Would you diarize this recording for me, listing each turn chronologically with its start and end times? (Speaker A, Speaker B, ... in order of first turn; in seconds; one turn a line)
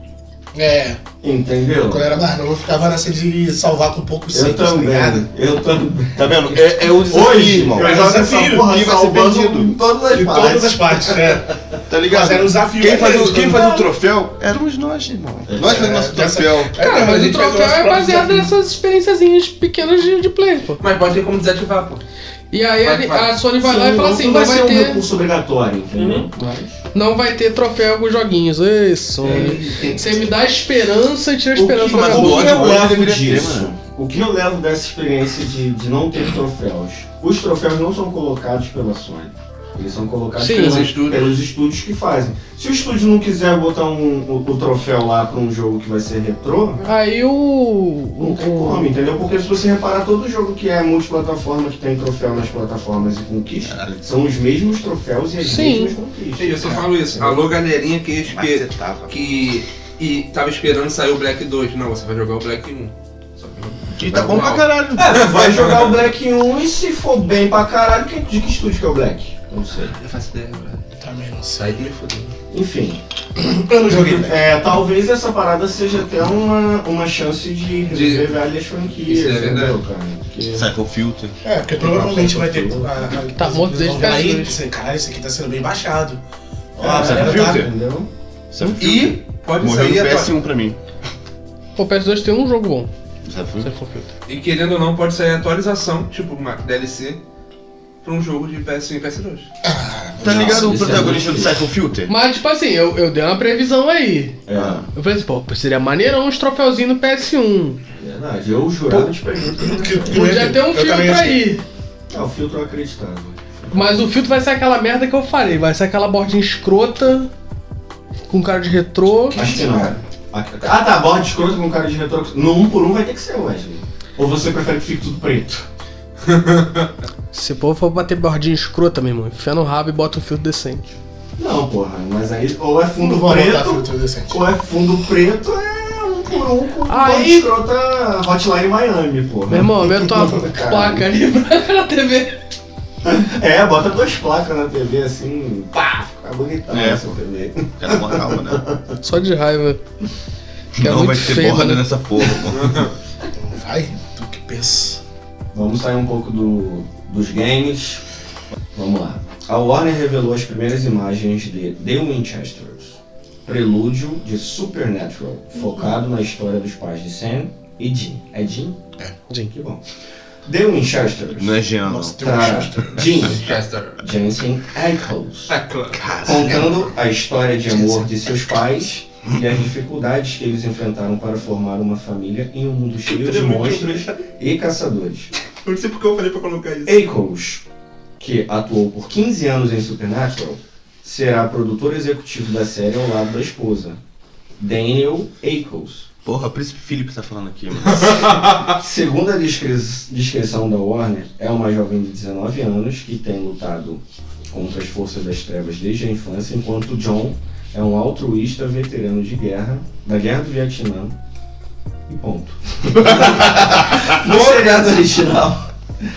Speaker A: 0.5-1.0
Speaker B: 1.2-2.1
Speaker A: 1.9-5.2
Speaker B: 4.3-11.5
Speaker C: 6.2-7.9
Speaker A: 7.8-8.7
Speaker C: 8.7-9.8
Speaker A: 10.1-11.5
Speaker C: 11.9-16.8
Speaker A: 12.0-13.7
Speaker B: 13.6-13.9
Speaker B: 15.5-15.9
Speaker A: 15.6-18.5
Speaker D: 16.8-20.8
Speaker E: 20.8-22.0
Speaker D: 22.5-25.0
Speaker E: 22.8-23.4
Speaker B: 23.6-26.8
Speaker E: 25.9-26.3
Speaker D: 26.9-32.7
Speaker E: 29.2-30.1
Speaker B: 29.2-30.2
Speaker C: 31.6-33.7
Speaker B: 31.9-46.8
Speaker D: 40.4-40.9
Speaker E: 40.5-41.4
Speaker D: 46.8-48.9
Speaker B: 48.2-57.4
Speaker C: 53.6-54.0
Speaker D: 55.4-56.0
Speaker E: 56.4-66.1
Speaker C: 58.2-59.1
Speaker B: 64.0-64.4
Speaker C: 64.0-65.2
Speaker B: 65.0-70.0
Speaker E: 69.9-70.8
Speaker A: 71.0-71.7
Speaker E: 71.5-72.3
Speaker B: 72.5-73.0
Speaker A: 73.4-74.4
Speaker B: 74.1-80.7
Speaker E: 77.9-78.3
Speaker E: 79.1-79.8
Speaker C: 80.5-81.4
Speaker A: 81.4-86.2
Speaker B: 81.9-83.2
Speaker D: 83.3-84.6
Speaker A: 86.8-87.7
Speaker B: 86.8-88.1
Speaker C: 86.8-87.7
Speaker C: 88.5-90.8
Speaker E: 88.8-90.4
Speaker D: 91.8-92.9
Speaker C: 93.2-93.7
Speaker D: 93.6-94.1
Speaker E: 94.3-97.2
Speaker E: 98.0-99.5
Speaker A: 99.7-101.0
Speaker C: 100.2-102.1
Speaker B: 100.4-101.6
Speaker D: 102.1-104.4
Speaker B: 104.5-104.9
Speaker C: 104.5-104.8
Speaker D: 104.9-107.8
Speaker B: 107.9-110.4
Speaker D: 108.9-109.1
Speaker A: 109.7-111.5
Speaker D: 110.1-111.6
Speaker B: 112.1-114.2
Speaker D: 113.7-117.3
Speaker D: 118.3-119.4
Speaker E: 119.3-120.0
Speaker B: 119.3-125.7
Speaker E: 126.3-126.9
Speaker D: 127.3-130.8
Speaker B: 131.4-141.1
Speaker A: 133.0-134.4
Speaker D: 136.8-137.5
Speaker D: 139.5-142.4
Speaker B: 143.0-148.8
Speaker C: 146.7-147.2
Speaker C: 147.8-148.6
Speaker D: 149.0-149.8
Speaker C: 150.8-152.8
Speaker D: 150.8-151.8
Speaker E: 152.5-152.9
Speaker A: 153.4-155.0
Speaker B: 155.5-158.0
Speaker B: 158.7-168.8
Speaker D: 165.6-165.9
Speaker B: 169.4-169.8
Speaker B: 170.4-171.6
Speaker C: 171.4-173.1
Speaker A: 171.8-173.1
Speaker B: 172.2-173.5
Speaker E: 173.2-174.1
Speaker B: 174.0-175.6
Speaker E: 175.5-176.8
Speaker C: 176.0-176.8
Speaker B: 176.2-185.3
Speaker C: 177.8-178.0
Speaker E: 183.1-184.2
Speaker E: 185.6-187.1
Speaker B: 186.9-187.7
Speaker B: 188.2-194.0
Speaker B: 194.6-196.1
Speaker C: 196.2-198.3
Speaker E: 198.0-198.8
Speaker B: 198.8-211.2
Speaker B: 212.1-215.7
Speaker E: 213.1-215.2